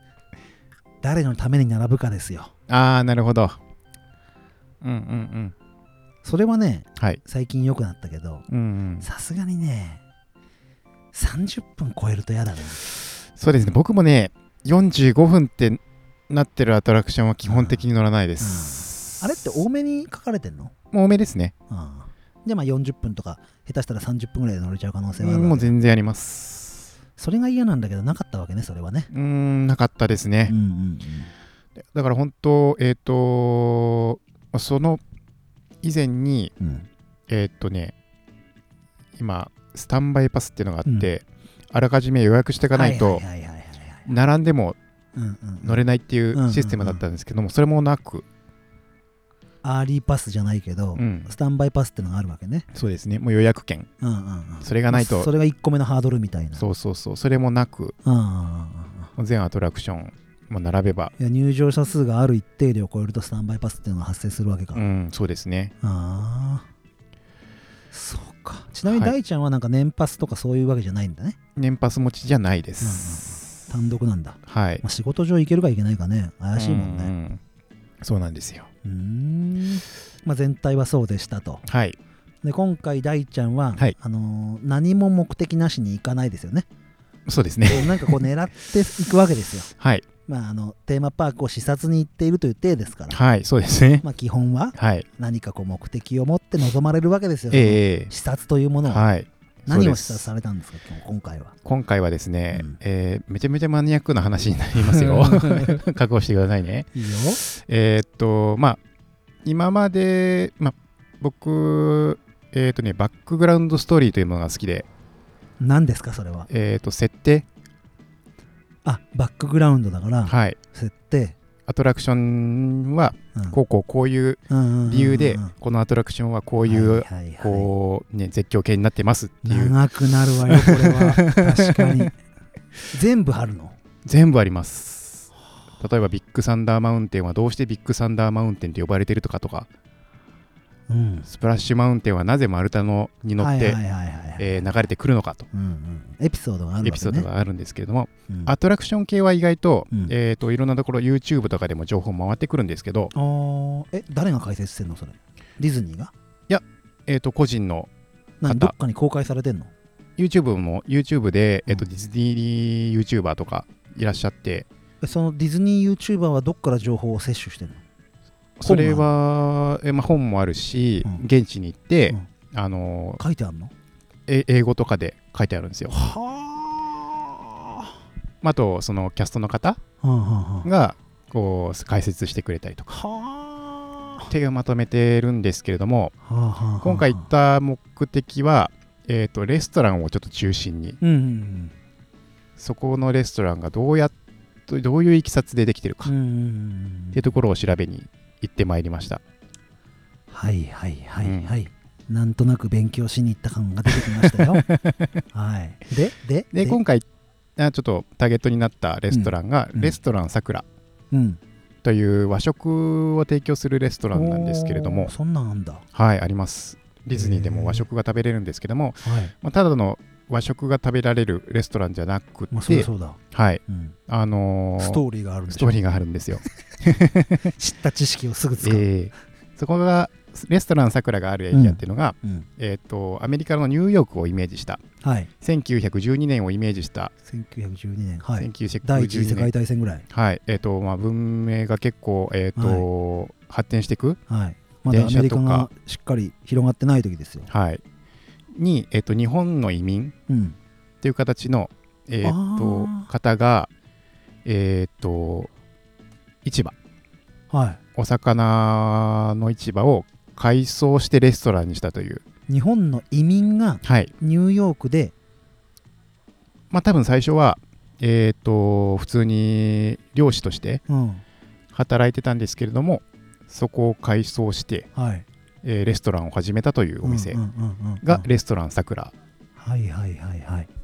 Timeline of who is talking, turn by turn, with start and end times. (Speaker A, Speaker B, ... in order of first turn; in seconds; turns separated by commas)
Speaker A: 1.0-2.5, Speaker B: 2.7-3.6, Speaker B: 4.8-5.5, Speaker A: 6.2-8.4, Speaker B: 8.5-9.1, Speaker A: 9.0-10.0, Speaker A: 11.1-12.8, Speaker B: 13.4-19.5, Speaker A: 17.4-17.9, Speaker A: 18.4-20.7, Speaker B: 20.9-21.5, Speaker A: 21.7-25.7, Speaker B: 25.2-26.9, Speaker A: 27.2-29.1, Speaker B: 29.1-30.6, Speaker A: 30.5-31.3, Speaker B: 31.9-35.0, Speaker B: 35.8-36.5, Speaker A: 36.6-36.9, Speaker B: 37.3-37.9, Speaker B: 39.2-43.2, Speaker A: 40.8-41.1, Speaker A: 42.7-44.0, Speaker B: 44.0-44.8, Speaker A: 45.1-45.8, Speaker B: 45.6-48.2, Speaker A: 46.3-47.0, Speaker A: 49.6-52.6, Speaker B: 51.0-51.3, Speaker B: 52.7-53.9, Speaker A: 54.0-56.7, Speaker B: 54.6-55.3, Speaker B: 56.5-57.9, Speaker A: 58.0-59.1, Speaker B: 59.1-61.1, Speaker A: 61.2-64.8, Speaker B: 64.7-65.7, Speaker A: 65.8-66.7, Speaker A: 67.9-71.4, Speaker B: 68.9-69.1, Speaker B: 71.5-73.7, Speaker A: 72.8-77.1, Speaker B: 74.5-74.8, Speaker B: 76.5-77.4, Speaker B: 78.0-78.7, Speaker A: 78.8-81.6, Speaker B: 81.7-82.0, Speaker A: 82.4-86.7, Speaker B: 87.3-88.3, Speaker A: 87.7-89.7, Speaker B: 89.8-90.0, Speaker A: 90.2-93.2, Speaker B: 93.1-94.0, Speaker A: 94.0-99.0, Speaker B: 94.7-95.0, Speaker B: 97.5-98.1, Speaker B: 98.8-100.3, Speaker A: 99.7-101.5, Speaker B: 101.6-108.8, Speaker A: 102.5-102.8, Speaker A: 104.8-105.8, Speaker A: 106.9-107.4, Speaker B: 109.4-114.9, Speaker A: 115.6-116.5, Speaker B: 116.5-117.5, Speaker A: 118.8-121.3, Speaker B: 120.2-120.6, Speaker B: 121.7-132.1, Speaker A: 124.5-125.5, Speaker A: 126.6-127.7, Speaker A: 129.4-132.2, Speaker A: 132.9-133.8, Speaker B: 134.0-139.7, Speaker A: 140.9-141.3, Speaker B: 141.3-143.8, Speaker A: 143.4-144.8, Speaker B: 144.4-145.5, Speaker A: 145.5-147.3, Speaker B: 146.8-153.1, Speaker A: 153.1-156.1, Speaker B: 156.5-157.9, Speaker A: 158.4-159.7, Speaker B: 158.4-158.7, Speaker B: 160.2-164.7, Speaker A: 165.0-167.8, Speaker B: 168.6-173.2, Speaker A: 168.6-169.1, Speaker A: 173.2-173.7, Speaker B: 174.3-176.0, Speaker A: 175.9-177.9, Speaker B: 178.4-179.8, Speaker A: 180.0-180.7, Speaker B: 180.6-182.9, Speaker A: 182.9-184.3, Speaker B: 184.3-186.1, Speaker A: 186.2-187.2, Speaker B: 186.8-191.0, Speaker A: 191.0-191.7, Speaker B: 192.6-194.1, Speaker B: 194.7-196.1, Speaker A: 196.0-197.2, Speaker B: 197.1-199.2, Speaker A: 200.3-204.7, Speaker B: 201.2-201.5, Speaker B: 203.9-205.2, Speaker A: 205.3-206.8, Speaker B: 206.5-207.0, Speaker B: 207.6-210.7, Speaker A: 209.1-210.0, Speaker A: 211.1-211.4, Speaker B: 211.8-215.1, Speaker A: 214.1-215.8, Speaker B: 215.9-227.5, Speaker A: 217.1-217.9, Speaker A: 219.0-219.3, Speaker A: 222.5-223.9, Speaker A: 224.8-225.9, Speaker A: 227.4-228.9, Speaker B: 228.6-234.8, Speaker A: 231.5-232.5, Speaker A: 235.0-235.3, Speaker B: 235.4-237.1, Speaker A: 237.2-240.0, Speaker B: 238.4-239.5, Speaker B: 240.1-244.2, Speaker A: 242.6-242.8, Speaker A: 244.3-247.5, Speaker B: 244.9-245.7, Speaker B: 247.5-247.8, Speaker B: 248.5-250.1, Speaker A: 250.3-250.6, Speaker B: 251.0-253.7, Speaker A: 252.2-253.1, Speaker B: 254.4-255.5, Speaker B: 256.4-256.7, Speaker A: 257.5-257.8, Speaker B: 257.9-262.2, Speaker A: 262.5-265.1, Speaker B: 263.8-264.1, Speaker B: 266.7-270.8, Speaker A: 270.9-271.2, Speaker B: 271.7-274.9, Speaker A: 274.9-275.2, Speaker B: 275.6-277.4, Speaker A: 277.0-278.3, Speaker B: 278.0-279.1, Speaker A: 279.6-280.7